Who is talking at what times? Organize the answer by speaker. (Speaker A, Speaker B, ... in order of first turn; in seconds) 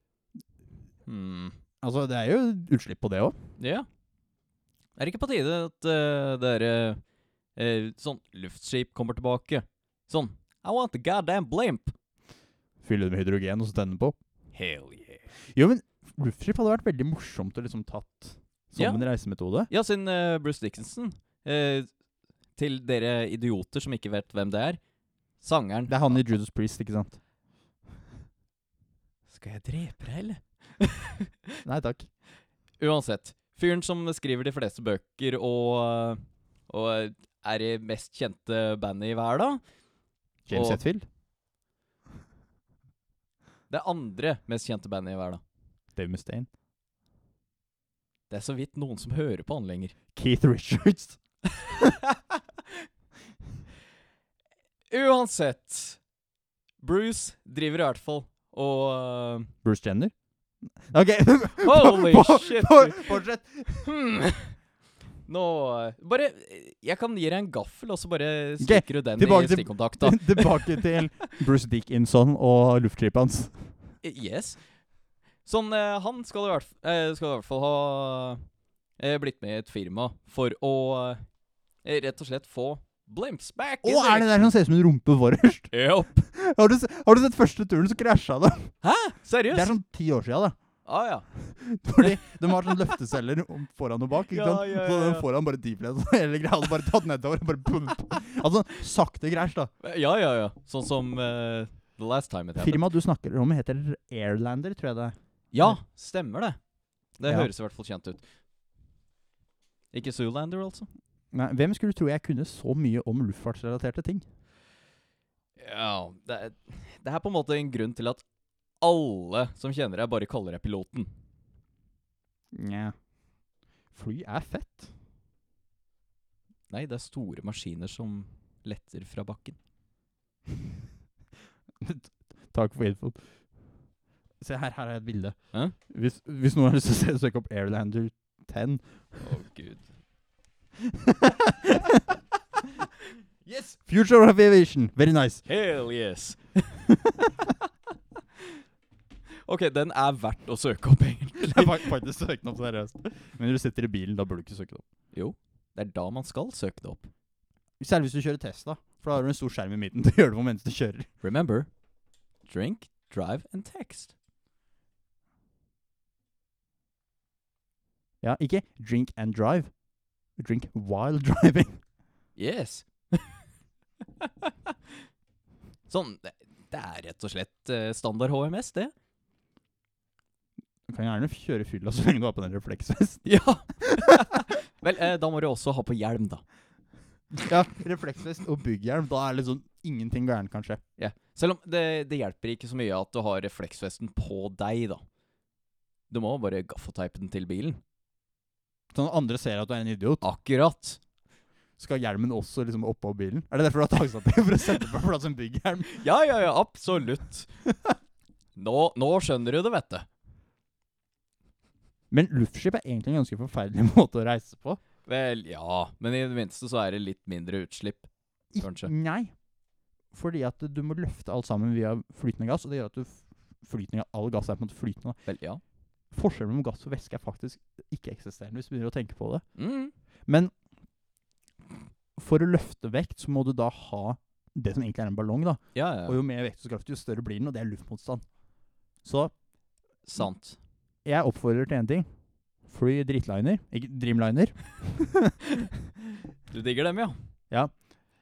Speaker A: 1.1-1.6, 3.6-3.9, 5.0-7.0, 7.5-11.9, 14.5-15.3, 18.8-19.0, 19.7-21.9, 22.6-24.8, 25.4-26.2, 29.3-31.6, 32.8-39.6, 40.5-40.8, 43.7-45.4, 48.3-49.9, 51.7-52.1, 54.9-56.0, 56.8-59.5, 61.6-63.2, 63.8-64.5, 65.3-70.9, 74.0-74.6, 75.4-78.4, 79.0-81.2, 81.8-84.5, 85.7-86.2, 88.8-89.7, 90.8-91.3, 92.0-92.7, 94.3-95.3, 99.8-102.9, 105.5-106.6, 107.2-108.2, 109.9-110.9, 115.6-118.2, 118.8-121.1, 126.7-129.6, 139.2-139.9, 145.4-146.7, 149.4-151.9, 155.1-157.1, 161.2-161.7, 162.4-164.1, 172.3-173.4, 174.2-174.5, 175.9-178.9, 183.2-186.4, 191.0-195.0, 196.1-197.8, 200.2-201.0, 205.9-207.5, 208.6-210.1, 215.1-218.9, 225.2-225.6, 229.6-229.9, 235.7-236.2, 240.1-240.6, 246.5-247.2
Speaker B: 1.8-3.4, 12.8-14.2, 15.5-19.7, 25.9-27.2, 31.6-32.1, 40.5-41.0, 46.0-46.5, 50.1-51.2, 59.6-60.1, 60.8-63.9, 68.6-73.7, 83.8-88.7, 89.5-90.5, 91.4-99.7, 102.6-105.8, 107.2-107.5, 111.3-114.2, 122.5-122.9, 123.9-124.9, 131.8-133.2, 134.4-135.3, 135.9-139.3, 140.8-142.7, 143.4-145.4, 146.8-147.4, 151.4-154.8, 157.8-161.1, 168.2-169.7, 170.4-171.8, 180.9-183.2, 183.8-184.4, 187.4-190.8, 198.9-200.2, 201.8-205.9, 207.7-207.9, 212.1-214.8, 218.5-219.3, 220.1-225.2, 226.1-229.4, 230.3-230.5, 232.2-238.2, 239.0-239.3, 241.0-242.1, 242.7-245.4